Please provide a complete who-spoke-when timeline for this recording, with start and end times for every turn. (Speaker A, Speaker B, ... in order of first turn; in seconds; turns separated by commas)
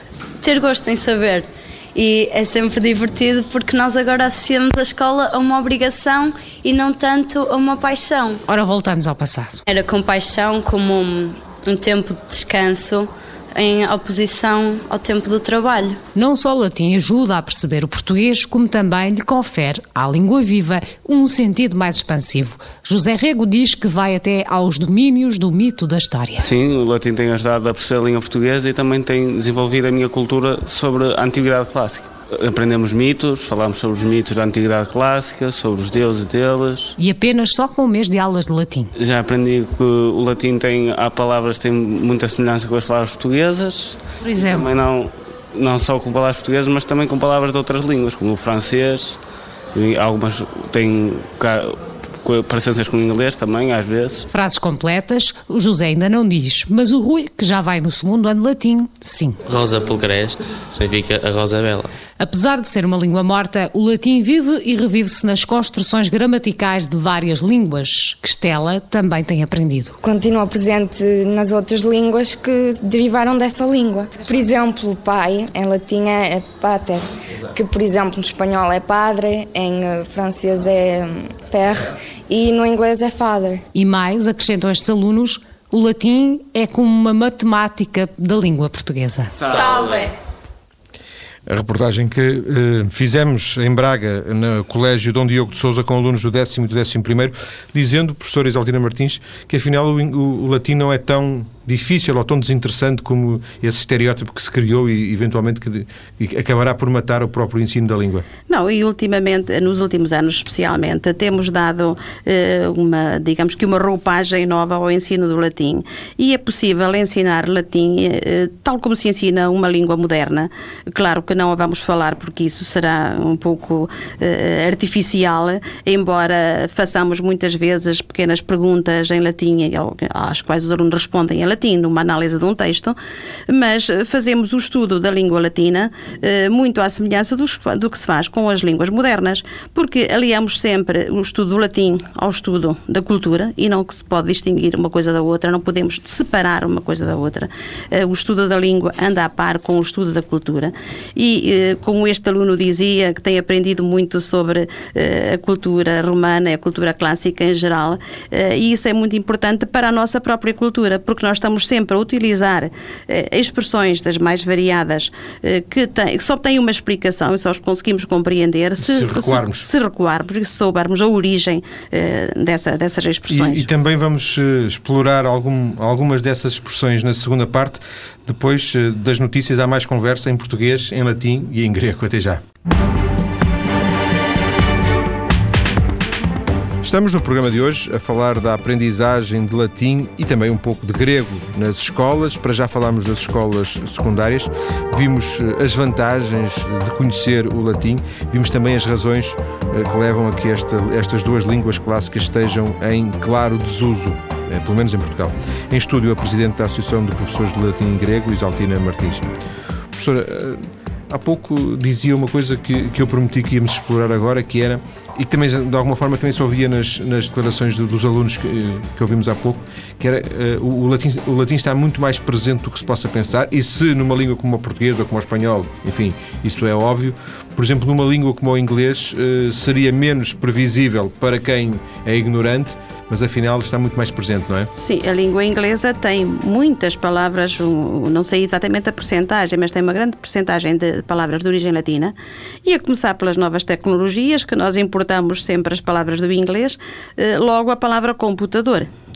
Speaker A: 0.4-8.4, Speaker B: 8.5-9.6, Speaker A: 9.7-16.0, Speaker B: 16.1-26.5, Speaker C: 26.4-37.0, Speaker B: 37.0-38.9, Speaker C: 39.0-49.2, Speaker B: 44.2-44.7, Speaker C: 49.7-54.3, Speaker B: 54.3-59.4, Speaker D: 59.5-61.9, Speaker B: 62.2-70.0, Speaker E: 70.0-83.6, Speaker B: 83.7-89.4, Speaker F: 91.5-108.3, Speaker G: 108.5-132.9, Speaker G: 133.5-173.7, Speaker F: 168.8-169.7, Speaker F: 173.3-182.4, Speaker F: 186.8-209.3, Speaker F: 209.9-234.7, Speaker G: 234.7-248.9